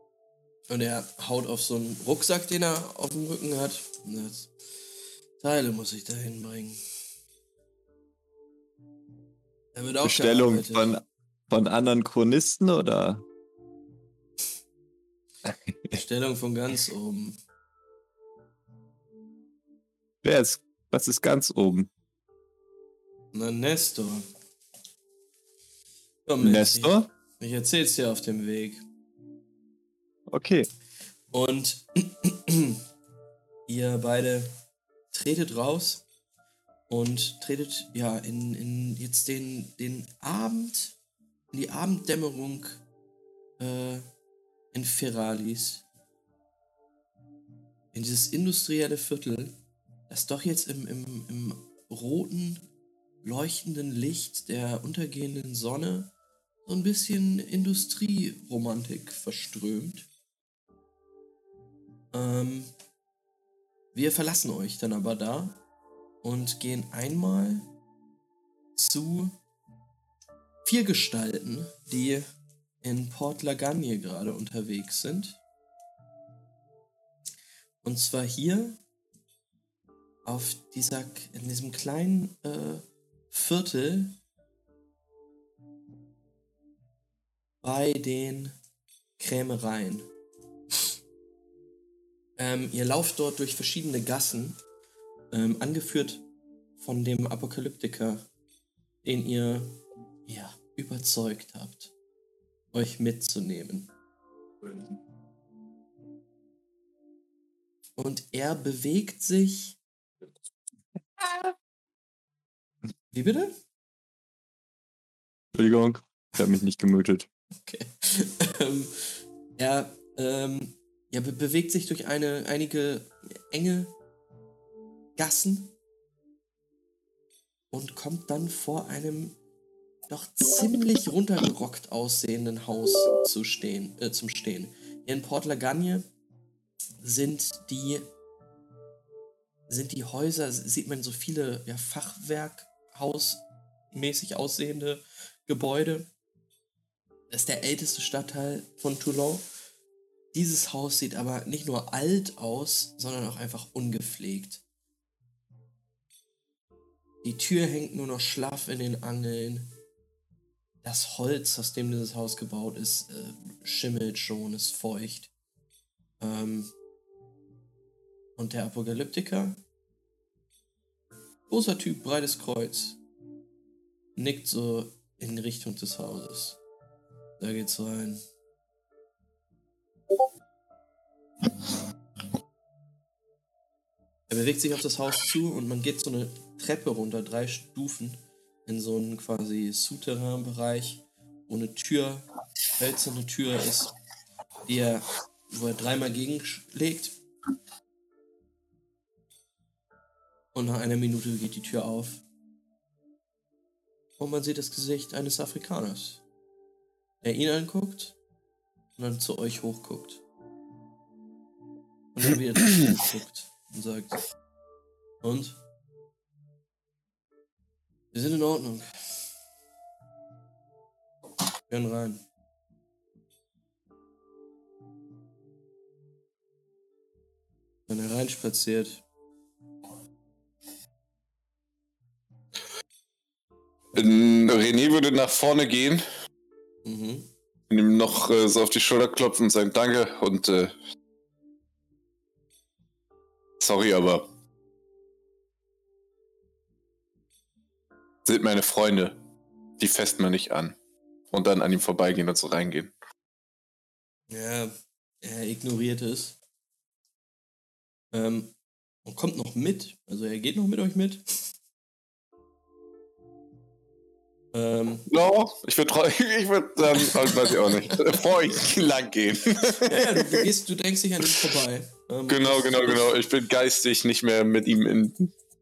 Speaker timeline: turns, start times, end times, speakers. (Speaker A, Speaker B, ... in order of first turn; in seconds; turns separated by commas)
Speaker A: 0.7-4.5, Speaker A: 5.4-6.8, Speaker A: 9.8-10.9, Speaker B: 10.0-13.2, Speaker B: 15.5-15.9, Speaker A: 15.9-17.4, Speaker B: 20.2-21.9, Speaker A: 23.3-24.2, Speaker A: 26.3-28.8, Speaker B: 26.4-27.1, Speaker B: 30.3-30.7, Speaker A: 31.3-32.8, Speaker A: 33.7-34.5, Speaker A: 35.1-36.0, Speaker A: 36.9-41.0, Speaker A: 41.5-42.8, Speaker A: 43.6-44.1, Speaker A: 44.7-45.9, Speaker A: 47.9-52.6, Speaker A: 53.2-56.1, Speaker A: 56.7-60.1, Speaker A: 62.1-62.7, Speaker A: 63.9-65.6, Speaker A: 66.2-67.7, Speaker A: 68.8-69.4, Speaker A: 70.6-72.2, Speaker A: 72.8-75.4, Speaker A: 77.8-78.8, Speaker A: 80.2-84.2, Speaker A: 87.6-88.5, Speaker A: 89.2-90.1, Speaker A: 92.4-94.6, Speaker A: 95.3-96.2, Speaker A: 96.8-98.3, Speaker A: 99.0-101.9, Speaker A: 102.7-103.9, Speaker A: 108.0-109.8, Speaker B: 111.2-111.5, Speaker A: 113.1-113.5, Speaker B: 115.5-117.3, Speaker A: 117.7-123.9, Speaker A: 125.2-125.8, Speaker A: 127.7-129.4, Speaker A: 130.1-136.1, Speaker A: 137.0-138.1, Speaker A: 139.7-146.1, Speaker A: 147.3-149.4, Speaker A: 150.3-154.6, Speaker A: 157.2-159.7, Speaker A: 160.8-165.3, Speaker A: 166.2-166.7, Speaker A: 168.4-169.6, Speaker A: 171.5-173.0, Speaker A: 174.2-176.6, Speaker A: 177.4-178.2, Speaker A: 184.3-193.9, Speaker A: 194.7-197.1, Speaker A: 200.5-202.2, Speaker A: 204.2-206.2, Speaker A: 207.2-208.2, Speaker A: 209.0-210.2, Speaker A: 212.2-214.2, Speaker A: 215.2-215.6, Speaker A: 218.1-219.2, Speaker A: 221.7-222.2, Speaker A: 227.9-229.0, Speaker C: 233.9-236.0, Speaker A: 236.8-237.3, Speaker C: 237.7-240.7, Speaker C: 243.6-244.3, Speaker C: 248.3-249.2, Speaker C: 249.8-250.8, Speaker C: 251.3-252.9, Speaker A: 254.3-256.4, Speaker A: 258.1-258.5, Speaker A: 259.1-261.2, Speaker A: 264.5-265.1, Speaker C: 265.1-270.4, Speaker A: 269.8-273.1, Speaker C: 272.3-275.3